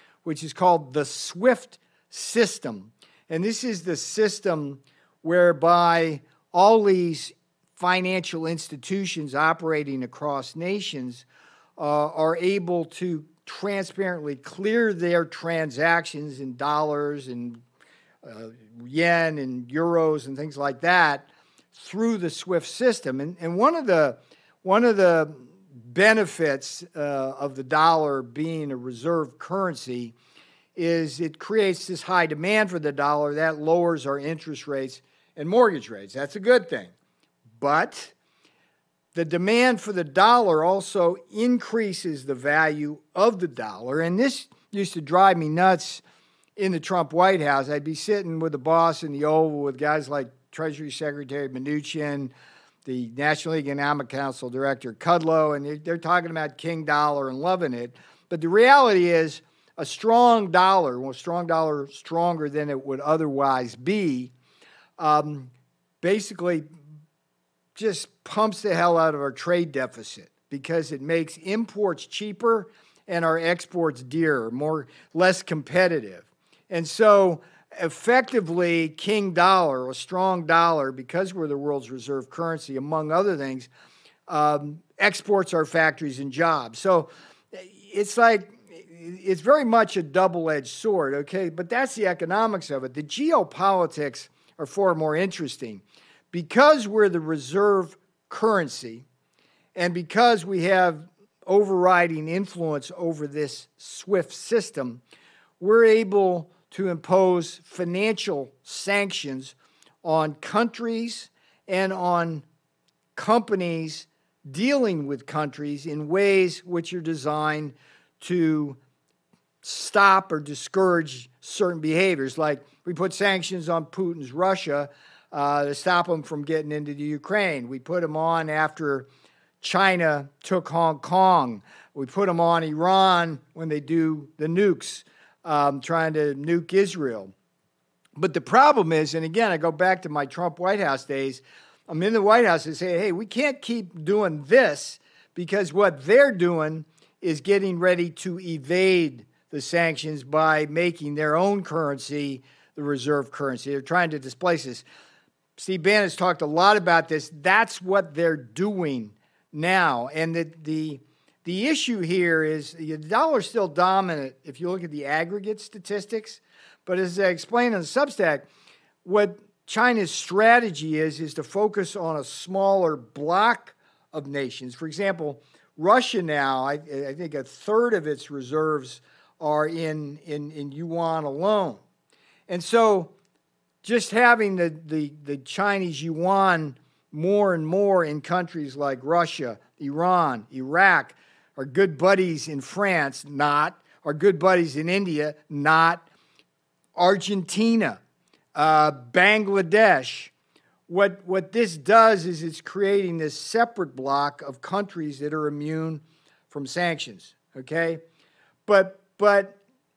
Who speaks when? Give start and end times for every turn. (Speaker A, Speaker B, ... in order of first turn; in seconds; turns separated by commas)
Speaker A: 0.2-11.2, Speaker A: 11.8-17.6, Speaker A: 18.2-30.1, Speaker A: 30.8-36.9, Speaker A: 37.6-38.1, Speaker A: 39.1-46.0, Speaker A: 46.6-52.3, Speaker A: 52.8-64.3, Speaker A: 65.0-66.7, Speaker A: 67.7-83.7, Speaker A: 84.3-99.0, Speaker A: 99.7-105.0, Speaker A: 105.6-112.4, Speaker A: 113.2-118.8, Speaker A: 119.6-129.1, Speaker A: 129.6-137.3, Speaker A: 138.2-154.8, Speaker A: 155.6-168.4, Speaker A: 169.0-181.8, Speaker A: 182.5-183.1, Speaker A: 183.8-196.1, Speaker A: 196.9-198.0, Speaker A: 198.5-200.3, Speaker A: 200.9-208.0, Speaker A: 208.7-209.6